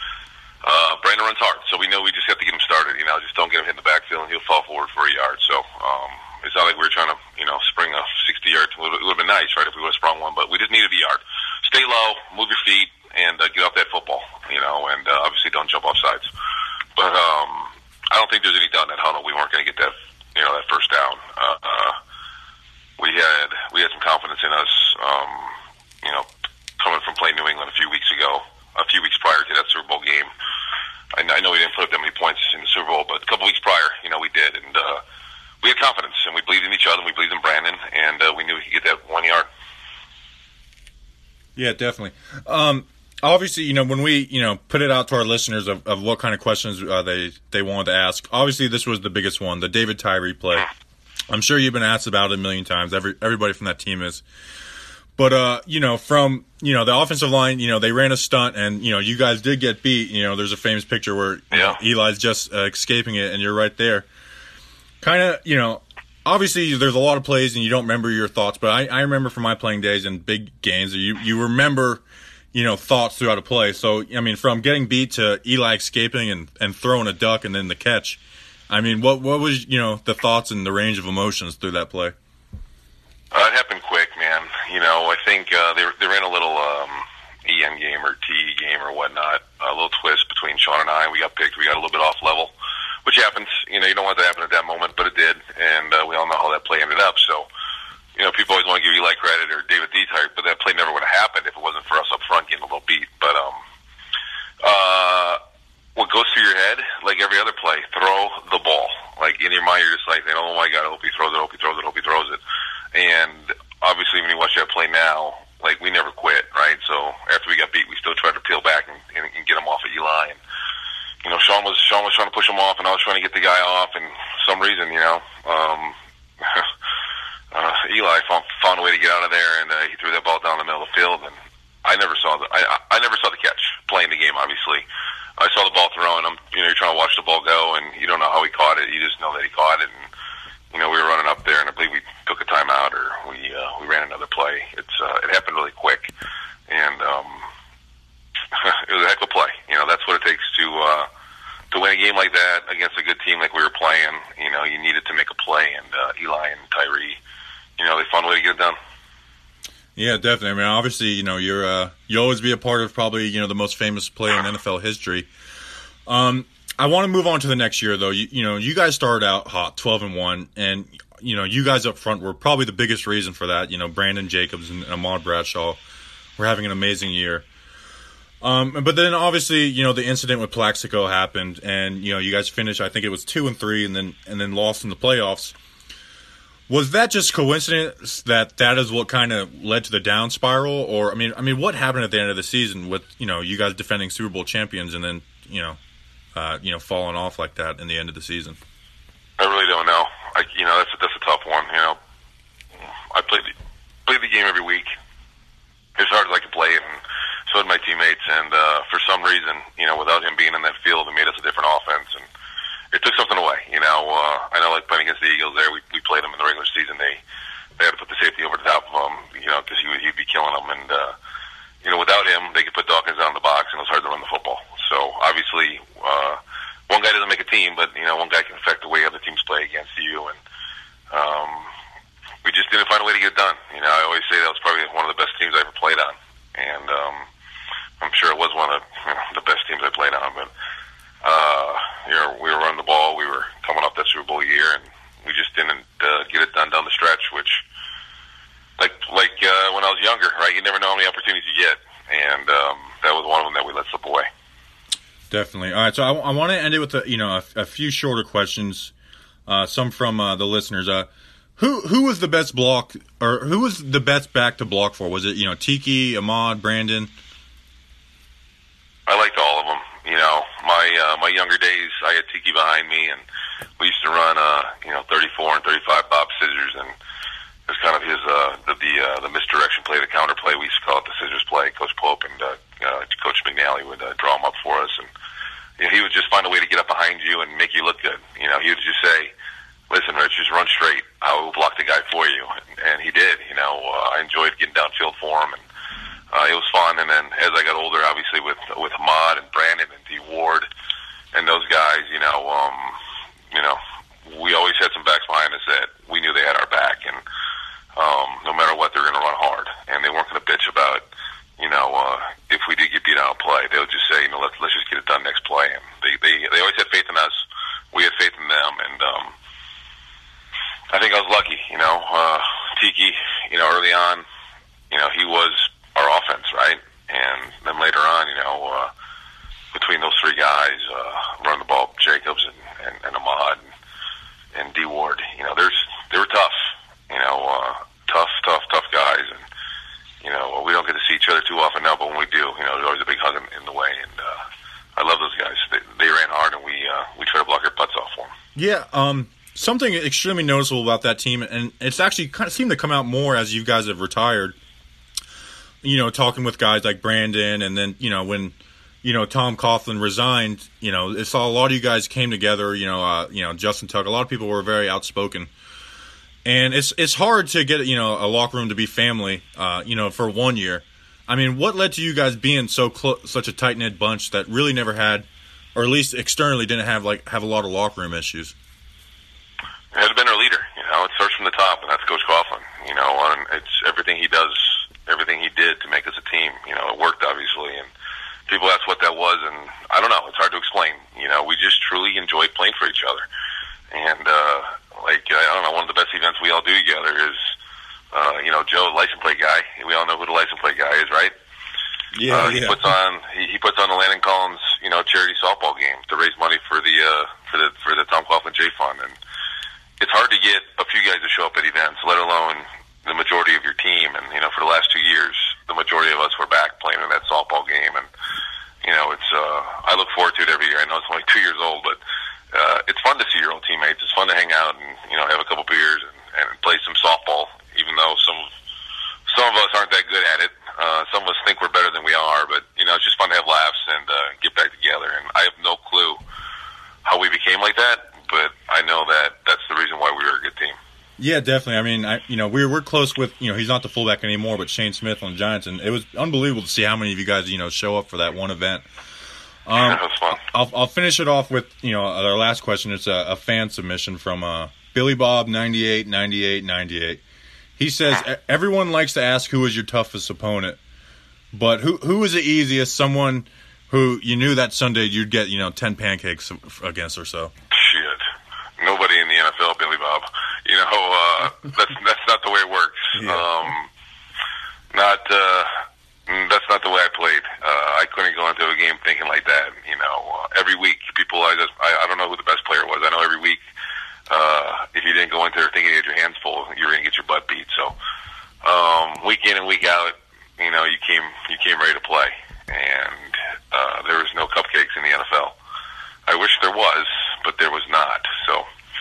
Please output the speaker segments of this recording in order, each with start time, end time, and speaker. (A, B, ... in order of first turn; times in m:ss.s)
0:00.6-0:16.3 A
0:17.0-0:22.0 A
0:23.0-0:26.3 A
0:26.8-0:30.3 A
0:31.1-0:35.0 A
0:35.6-0:39.5 A
0:41.6-0:50.7 B
0:51.3-0:54.2 B
0:55.2-1:04.1 B
1:01.5-1:01.8 A
1:05.0-1:22.2 B
1:23.3-1:32.5 A
1:33.0-1:37.5 A
1:38.2-1:43.6 A
1:44.6-1:45.4 A
1:46.0-1:52.4 A
1:52.9-2:00.4 A
2:01.2-2:06.7 A
2:07.5-2:14.9 A
2:15.4-2:20.0 A
2:20.7-2:26.1 A
2:26.7-2:27.5 A
2:28.5-2:31.1 A
2:31.7-2:37.2 A
2:37.8-2:38.8 A
2:40.0-2:45.3 B
2:46.1-2:55.8 B
2:56.4-2:57.5 B
2:58.4-3:05.6 B
3:06.7-3:15.8 B
3:16.4-3:18.6 B
3:19.4-3:22.0 A
3:22.8-3:23.5 A
3:24.1-3:24.9 A
3:26.0-3:32.3 A
3:32.9-3:37.2 A
3:37.8-3:41.2 A
3:41.8-3:50.4 A
3:51.1-3:51.7 A
3:52.4-3:57.3 A
3:58.0-4:00.5 A
4:01.2-4:07.6 A
4:08.8-4:14.3 A
4:15.3-4:18.9 B
4:19.5-4:27.1 B
4:29.1-4:33.2 A
4:33.8-4:37.0 A
4:37.7-4:45.1 A
4:45.8-4:49.3 A
4:49.9-4:55.6 A
4:56.3-5:00.7 A
5:01.3-5:03.0 A
5:03.5-5:07.2 A
5:08.0-5:11.0 A
5:11.6-5:19.4 A
5:20.9-5:24.2 A
5:24.9-5:28.9 A
5:29.7-5:33.7 A
5:34.5-5:39.4 A
5:40.2-5:44.4 A
5:45.0-5:48.3 A
5:48.6-5:54.6 B
5:55.8-6:05.5 B
6:06.4-6:18.5 B
6:19.9-6:27.9 A
6:28.5-6:33.2 A
6:33.9-6:37.5 A
6:38.1-6:41.3 A
6:42.1-6:42.9 B
6:42.3-6:49.2 A
6:50.0-6:58.1 A
6:58.8-7:02.0 A
7:02.5-7:08.5 A
7:09.3-7:16.2 A
7:17.0-7:20.8 A
7:21.2-7:28.9 B
7:29.7-7:37.2 B
7:29.8-7:30.4 A
7:37.8-7:40.8 B
7:41.5-7:47.5 B
7:47.7-7:48.2 A
7:48.8-7:53.9 A
7:53.2-7:53.5 B
7:54.9-7:55.8 A
7:56.3-8:03.6 A
8:04.3-8:08.0 A
8:08.6-8:15.6 A
8:16.3-8:18.7 A